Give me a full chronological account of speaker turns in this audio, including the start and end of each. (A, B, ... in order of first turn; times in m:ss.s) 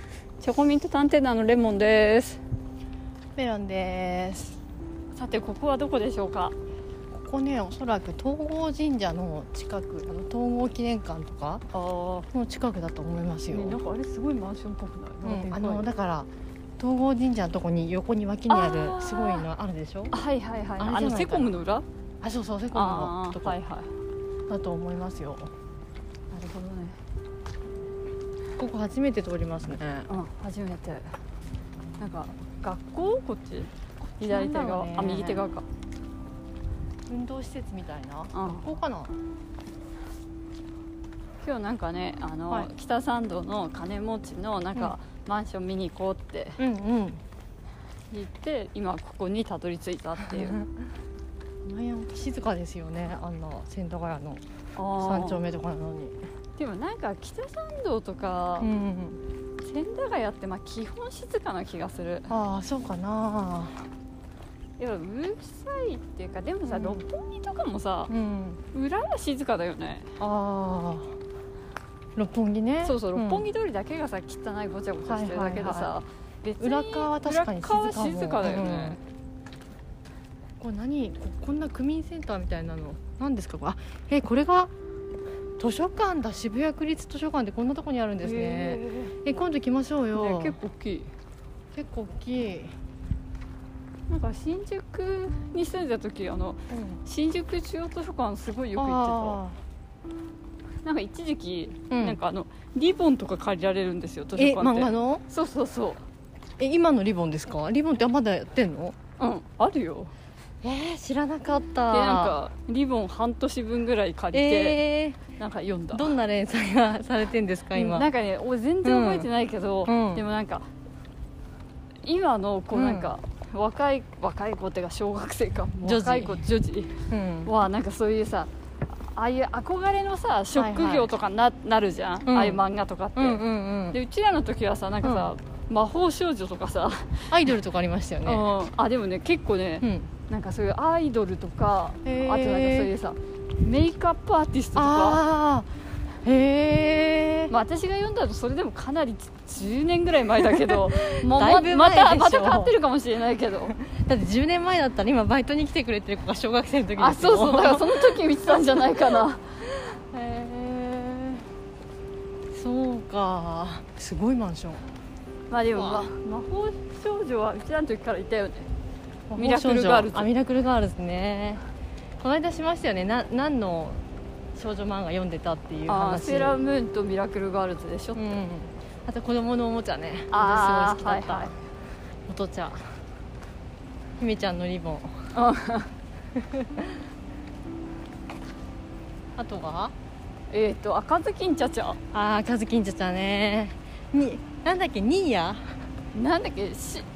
0:00.4-0:02.4 A
0:03.4-0:04.6 B
0:05.2-0:06.5 A
0:07.1-0:11.6 B
0:11.7-0:12.3 A
0:12.3-0:13.8 B
0:13.5-0:15.8 A
0:15.2-0:20.1 B
0:18.5-0:19.4 A
0:20.1-0:21.8 A
0:20.8-0:21.6 B
0:22.2-0:23.6 B
0:22.7-0:23.9 A
0:24.5-0:25.5 B
0:26.3-0:27.0 A
0:28.6-0:30.1 B
0:30.1-0:31.1 A
0:32.0-0:35.6 A
0:34.2-0:35.4 B
0:37.1-0:39.1 B
0:38.3-0:38.7 A
0:41.4-0:46.6 A
0:46.6-0:47.2 B
0:48.1-0:50.6 A
0:50.3-0:50.7 B
0:51.7-0:54.4 B
0:54.8-0:55.5 A
0:55.0-0:56.2 B
0:56.6-0:58.7 A
0:58.6-0:59.2 B
0:59.6-1:02.3 A
1:02.3-1:03.8 B
1:04.8-1:08.1 A
1:06.6-1:07.0 B
1:08.1-1:08.6 B
1:08.7-1:10.1 A
1:10.2-1:11.2 B
1:12.2-1:13.4 B
1:12.8-1:19.0 A
1:15.1-1:15.9 B
1:16.6-1:19.0 B
1:20.6-1:24.7 B
1:25.6-1:30.6 B
1:28.2-1:29.2 A
1:30.1-1:31.1 A
1:31.7-1:32.7 B
1:34.1-1:39.4 A
1:36.7-1:37.0 B
1:38.8-1:39.6 B
1:40.8-1:46.0 A
1:41.9-1:42.2 B
1:44.4-1:45.2 B
1:46.6-1:49.0 B
1:49.2-1:50.1 A
1:50.6-1:52.4 B
1:51.9-1:54.8 A
1:54.3-1:55.2 B
1:55.4-1:56.2 A
1:55.9-1:58.1 B
1:57.8-2:00.7 A
1:58.8-1:59.3 B
1:59.9-2:00.2 B
2:02.0-2:08.5 A
2:02.7-2:03.1 B
2:05.8-2:06.4 B
2:07.1-2:07.5 B
2:09.1-2:17.3 A
2:10.5-2:11.1 B
2:12.3-2:12.6 B
2:13.2-2:14.0 B
2:15.0-2:15.3 B
2:17.3-2:18.5 B
2:18.2-2:25.2 A
2:19.8-2:20.1 B
2:22.0-2:22.9 B
2:24.8-2:25.7 B
2:26.2-2:27.5 B
2:27.5-2:33.8 A
2:30.5-2:32.7 B
2:33.7-2:41.5 B
2:37.0-2:39.4 A
2:42.5-2:44.9 B
2:45.5-2:48.7 A
2:45.7-2:46.1 B
2:49.3-2:51.6 B
2:49.4-2:50.3 A
2:52.2-2:54.0 B
2:54.6-2:56.6 B
2:55.9-2:58.2 A
2:58.2-3:01.6 B
3:00.3-3:01.5 A
3:02.3-3:02.9 B
3:04.2-3:05.2 B
3:05.3-3:05.9 A
3:06.4-3:07.0 B
3:09.4-3:09.9 B
3:10.5-3:12.0 A
3:12.1-3:15.7 B
3:16.1-3:17.1 A